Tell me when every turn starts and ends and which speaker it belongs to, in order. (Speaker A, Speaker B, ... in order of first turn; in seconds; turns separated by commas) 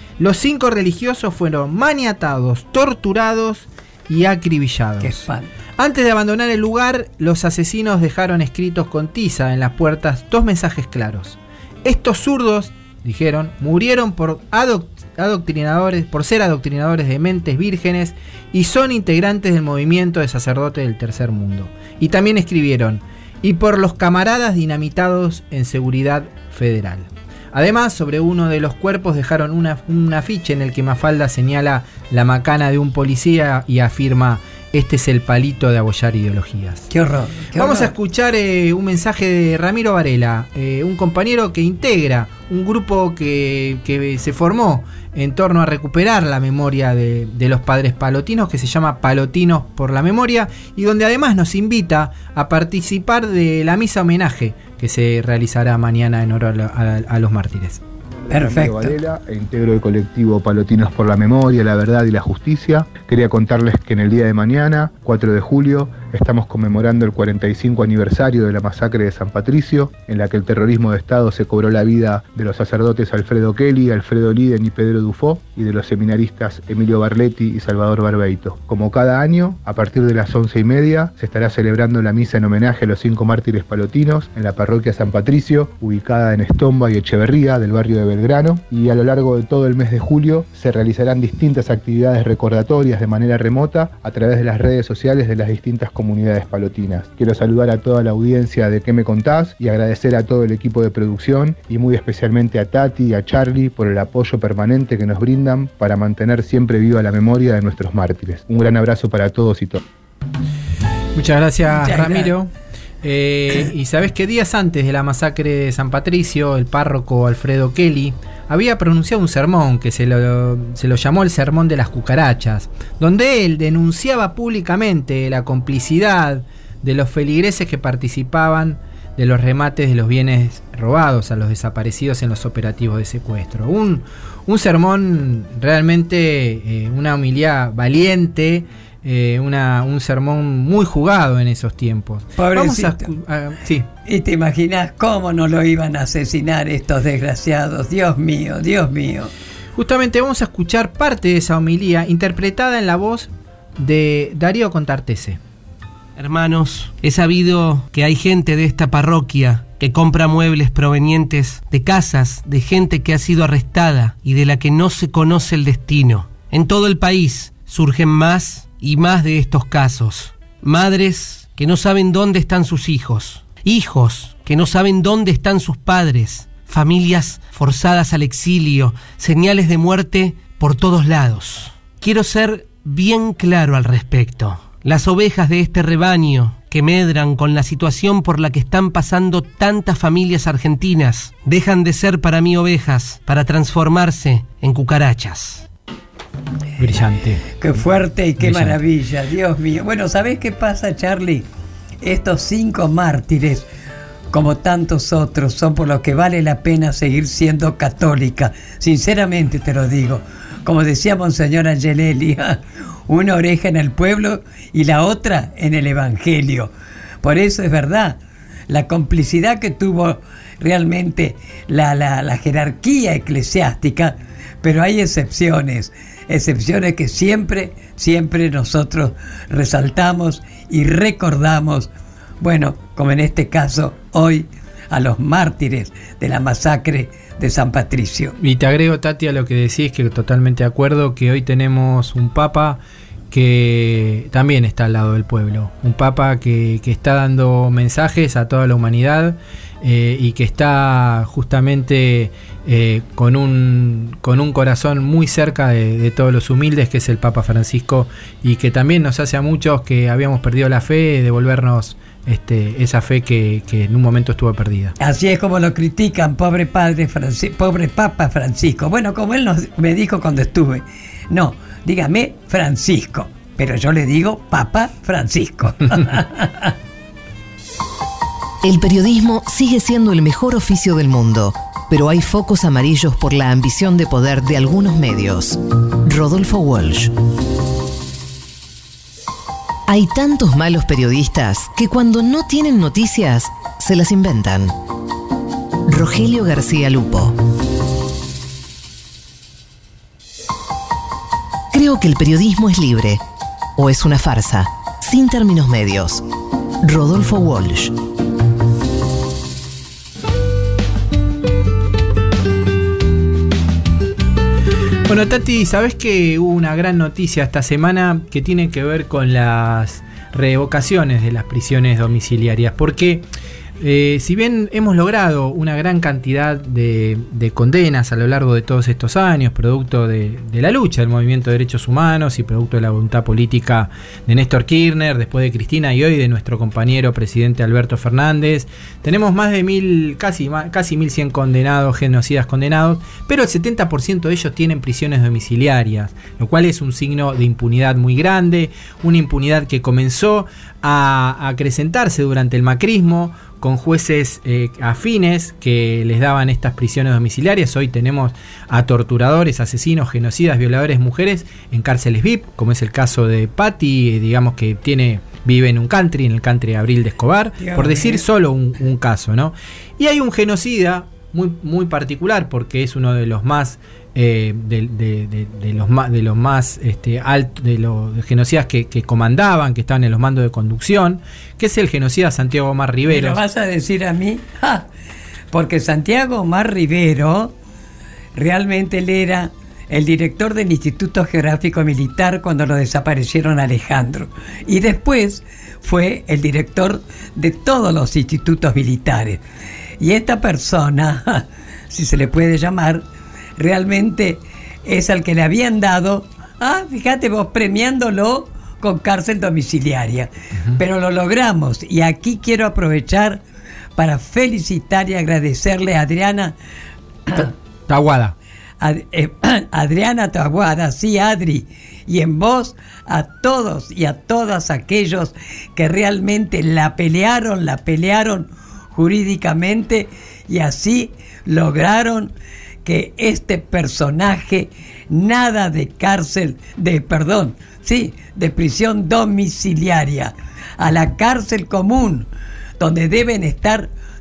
Speaker A: 0.2-5.3, Speaker B: 5.0-5.5, Speaker A: 5.8-36.9, Speaker B: 36.9-37.9, Speaker A: 37.6-57.8, Speaker C: 58.3-109.8, Speaker B: 58.3-58.9, Speaker A: 111.2-112.5, Speaker B: 111.8-112.3, Speaker A: 113.0-143.9, Speaker B: 142.4-143.1, Speaker B: 144.1-149.3, Speaker A: 149.8-155.4, Speaker D: 156.2-195.7, Speaker A: 196.8-197.4, Speaker B: 197.6-201.5, Speaker A: 198.4-198.8, Speaker B: 202.0-203.7, Speaker B: 204.3-216.7, Speaker B: 217.2-238.3, Speaker A: 238.4-264.9, Speaker B: 265.0-276.7, Speaker E: 278.6-287.1, Speaker E: 289.9-294.8, Speaker E: 295.9-297.4, Speaker E: 301.7-303.2, Speaker E: 303.8-306.2, Speaker E: 306.8-307.9, Speaker A: 315.1-323.2, Speaker A: 323.8-383.4, Speaker B: 367.6-368.2, Speaker B: 383.1-384.9, Speaker B: 385.5-387.5, Speaker B: 388.4-399.4, Speaker B: 400.0-403.1, Speaker B: 403.6-413.4, Speaker B: 414.0-416.6, Speaker A: 417.3-418.4, Speaker B: 418.8-432.3, Speaker B: 432.9-442.3, Speaker B: 442.8-443.9